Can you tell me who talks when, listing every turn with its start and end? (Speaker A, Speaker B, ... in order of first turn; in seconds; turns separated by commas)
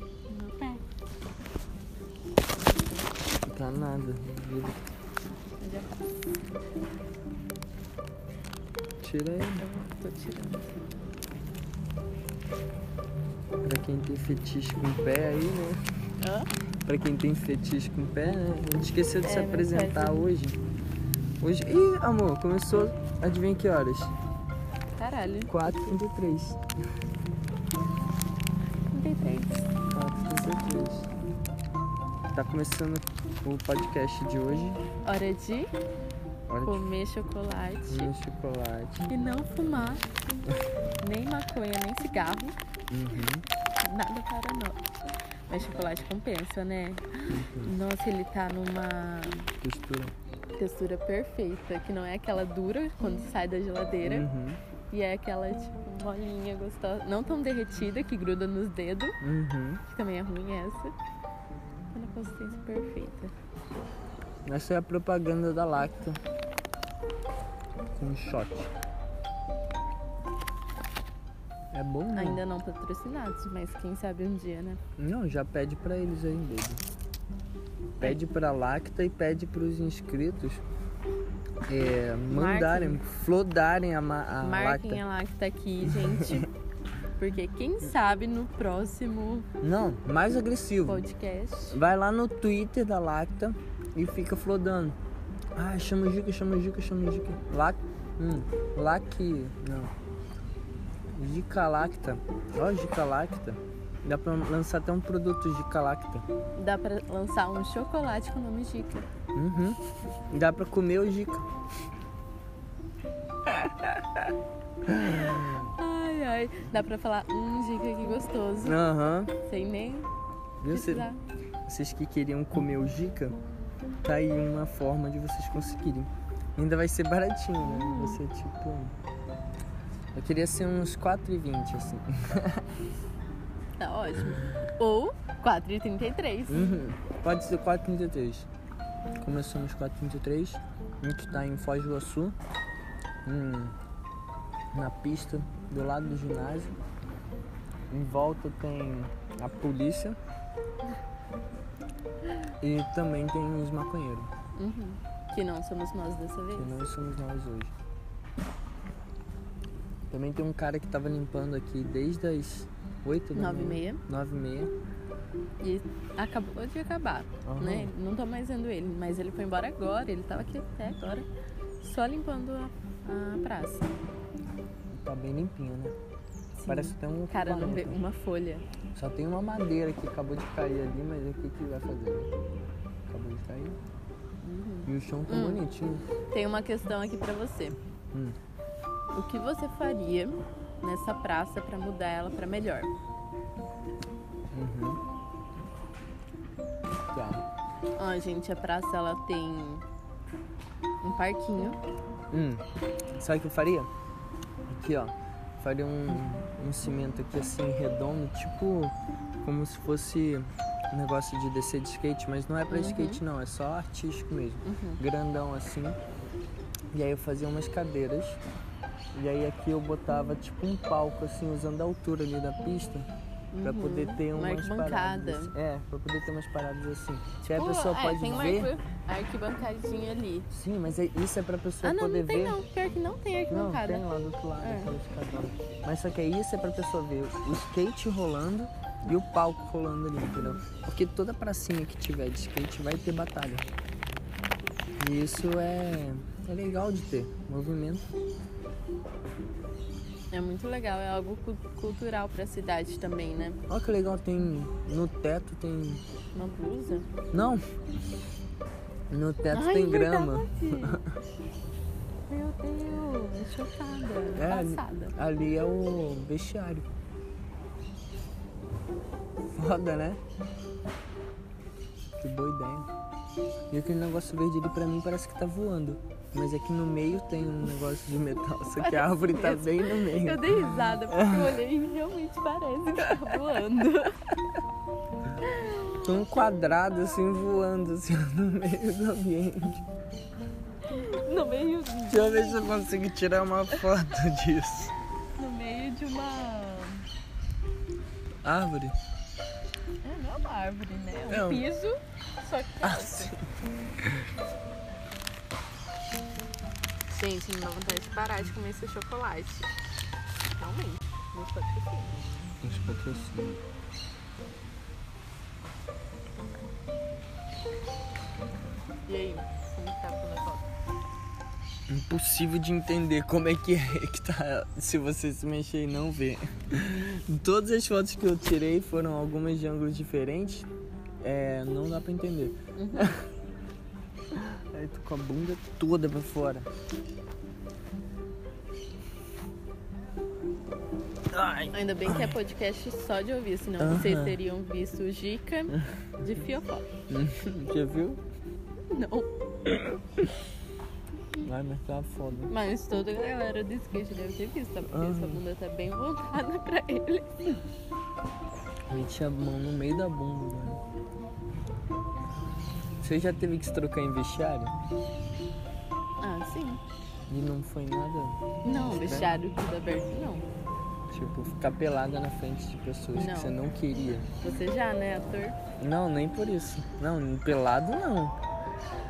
Speaker A: 0.3-0.8, Speaker B: 3.5-4.8, Speaker A: 5.6-5.9, Speaker B: 9.0-9.7, Speaker A: 9.6-10.8, Speaker B: 13.6-15.8, Speaker A: 16.2-16.5, Speaker B: 16.9-20.6, Speaker A: 19.2-20.2, Speaker B: 21.4-24.1, Speaker A: 25.0-25.8, Speaker B: 25.5-26.6, Speaker A: 28.9-29.7, Speaker B: 29.9-31.1, Speaker B: 32.3-34.8, Speaker A: 35.0-35.7, Speaker B: 36.5-36.9, Speaker A: 36.6-38.1, Speaker B: 37.9-39.1, Speaker A: 39.1-40.0, Speaker A: 41.0-42.6, Speaker B: 42.9-43.5, Speaker A: 43.8-44.8, Speaker A: 45.5-49.5, Speaker B: 47.3-47.7, Speaker B: 49.6-50.1, Speaker A: 50.6-54.3, Speaker B: 54.0-54.6, Speaker A: 54.9-59.2, Speaker B: 59.2-59.8, Speaker A: 59.9-60.9, Speaker A: 61.9-63.3, Speaker B: 64.5-66.2, Speaker B: 67.9-68.7, Speaker B: 71.7-72.4, Speaker A: 72.1-74.8, Speaker B: 75.0-76.8, Speaker B: 78.0-80.6, Speaker B: 81.7-85.0, Speaker A: 82.3-83.0, Speaker A: 84.4-86.5, Speaker B: 85.9-86.5, Speaker A: 87.2-89.5, Speaker B: 89.6-91.0, Speaker A: 90.9-91.8, Speaker B: 91.7-95.0, Speaker B: 95.6-99.9, Speaker B: 101.1-106.3, Speaker A: 106.6-109.1, Speaker B: 109.3-109.8, Speaker B: 110.3-111.5, Speaker B: 113.5-114.3, Speaker B: 114.9-115.7, Speaker A: 115.6-118.8, Speaker B: 118.6-119.3, Speaker A: 119.5-120.1, Speaker B: 120.6-121.1, Speaker A: 120.7-121.2, Speaker B: 121.7-123.4, Speaker B: 124.0-128.9, Speaker A: 127.6-128.2, Speaker B: 130.1-132.6, Speaker A: 133.8-136.8, Speaker B: 136.5-138.5, Speaker B: 139.2-142.4, Speaker B: 143.2-143.8, Speaker B: 144.7-146.8, Speaker B: 147.9-150.2, Speaker B: 152.6-154.3, Speaker A: 154.6-156.8, Speaker B: 156.6-157.7, Speaker B: 160.1-164.7, Speaker A: 163.3-164.0, Speaker A: 165.6-171.3, Speaker B: 167.4-167.9, Speaker A: 171.8-173.9, Speaker B: 174.9-176.0, Speaker A: 176.6-178.7, Speaker B: 176.7-178.0, Speaker B: 178.9-182.3, Speaker B: 183.1-183.8, Speaker A: 184.4-185.6, Speaker B: 184.9-186.0, Speaker A: 186.3-187.8, Speaker A: 189.1-192.9, Speaker B: 194.5-195.0, Speaker B: 197.1-197.4, Speaker A: 198.0-199.8, Speaker A: 201.0-201.8, Speaker B: 202.3-203.9, Speaker B: 204.7-216.0, Speaker A: 212.7-213.2, Speaker A: 214.7-215.0, Speaker B: 216.9-218.4, Speaker B: 219.1-223.1, Speaker A: 223.5-225.6, Speaker B: 223.6-228.7, Speaker A: 227.5-230.5, Speaker B: 230.5-232.6, Speaker A: 231.8-234.1, Speaker B: 233.5-243.7, Speaker A: 234.6-234.9, Speaker B: 245.0-248.1, Speaker A: 250.3-253.6, Speaker B: 253.7-256.0, Speaker A: 256.4-257.1, Speaker B: 257.3-257.6, Speaker B: 259.1-261.1, Speaker A: 259.5-261.0, Speaker A: 262.3-265.1, Speaker B: 264.4-266.9, Speaker B: 269.5-270.2, Speaker B: 272.2-272.9, Speaker B: 273.7-281.6, Speaker A: 278.8-284.2, Speaker A: 285.5-286.0, Speaker B: 286.0-289.9, Speaker A: 290.9-292.6, Speaker B: 292.1-294.9, Speaker A: 295.4-297.1, Speaker B: 298.4-298.9, Speaker A: 300.0-303.4, Speaker B: 301.3-301.7, Speaker B: 302.8-303.4, Speaker A: 307.1-309.7, Speaker A: 310.6-312.2, Speaker B: 312.6-313.6, Speaker A: 319.1-320.7, Speaker B: 321.9-330.7, Speaker B: 331.2-333.2, Speaker A: 332.8-333.1, Speaker B: 334.3-336.7, Speaker B: 341.3-342.4, Speaker A: 341.7-346.9, Speaker B: 343.8-344.4, Speaker B: 347.1-348.2, Speaker A: 348.9-349.3, Speaker B: 349.7-350.3, Speaker B: 351.4-352.5, Speaker A: 352.5-357.5, Speaker B: 354.9-355.4, Speaker B: 358.9-360.8, Speaker B: 363.0-364.8, Speaker A: 366.2-366.8, Speaker B: 367.3-369.3, Speaker A: 368.6-370.5, Speaker B: 371.1-374.3, Speaker A: 373.1-373.6, Speaker A: 374.4-375.6, Speaker B: 375.8-378.4